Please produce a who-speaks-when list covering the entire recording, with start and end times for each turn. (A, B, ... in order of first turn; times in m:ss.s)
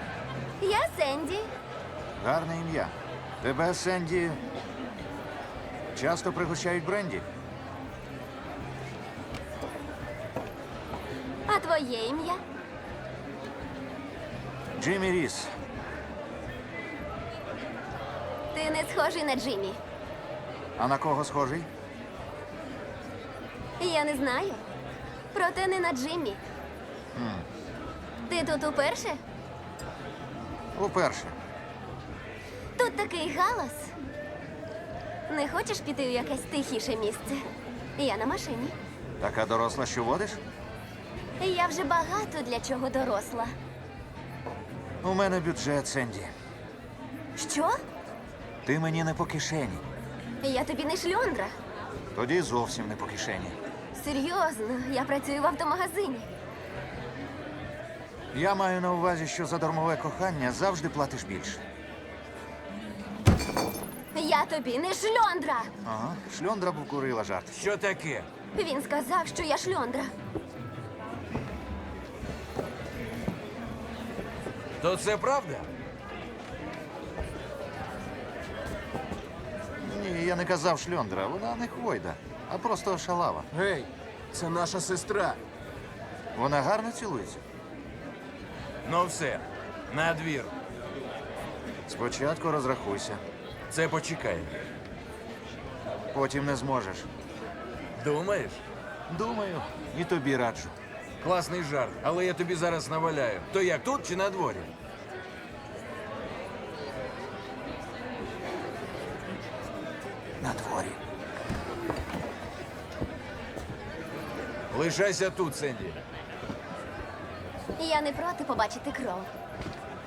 0:00.6-0:01.5 A
0:02.2-0:04.4 B
0:05.9-0:07.3 B
0:11.5-0:12.4 A
0:14.8-0:15.5 B
0:18.5-0:19.8 A
0:20.8-0:21.7 B
0:23.8-0:24.6 A
0:25.3-0:26.4 A
0:27.1-0:27.5 B
0:28.3-0:29.2 A
0:30.7-0:31.3 B
0:32.8-0:33.9 A
0:35.3-0:37.4 A
0:38.0-0:38.8 A
0:39.2-0:40.4 B
0:41.4-0:43.5 A
0:45.0-0:46.3 B
0:47.3-0:47.8 A
0:48.6-0:49.8 B
0:50.4-0:51.6 A
0:52.1-0:53.6 B
0:53.9-0:56.4 A
0:58.3-1:01.6 B
1:04.1-1:05.7 A
1:05.8-1:07.6 B
1:07.5-1:08.3 C
1:08.5-1:10.1 A
1:14.8-1:15.7 C
1:19.8-1:23.5 B
1:23.5-1:25.4 C
1:26.3-1:27.4 B
1:28.8-1:30.5 C
1:31.8-1:33.2 B
1:33.7-1:34.6 C
1:36.1-1:37.1 B
1:37.9-1:38.6 C
1:39.1-1:40.8 B
1:41.2-1:44.7 C
1:50.4-1:51.0 B
1:54.7-1:56.0 C
1:57.8-1:59.3 A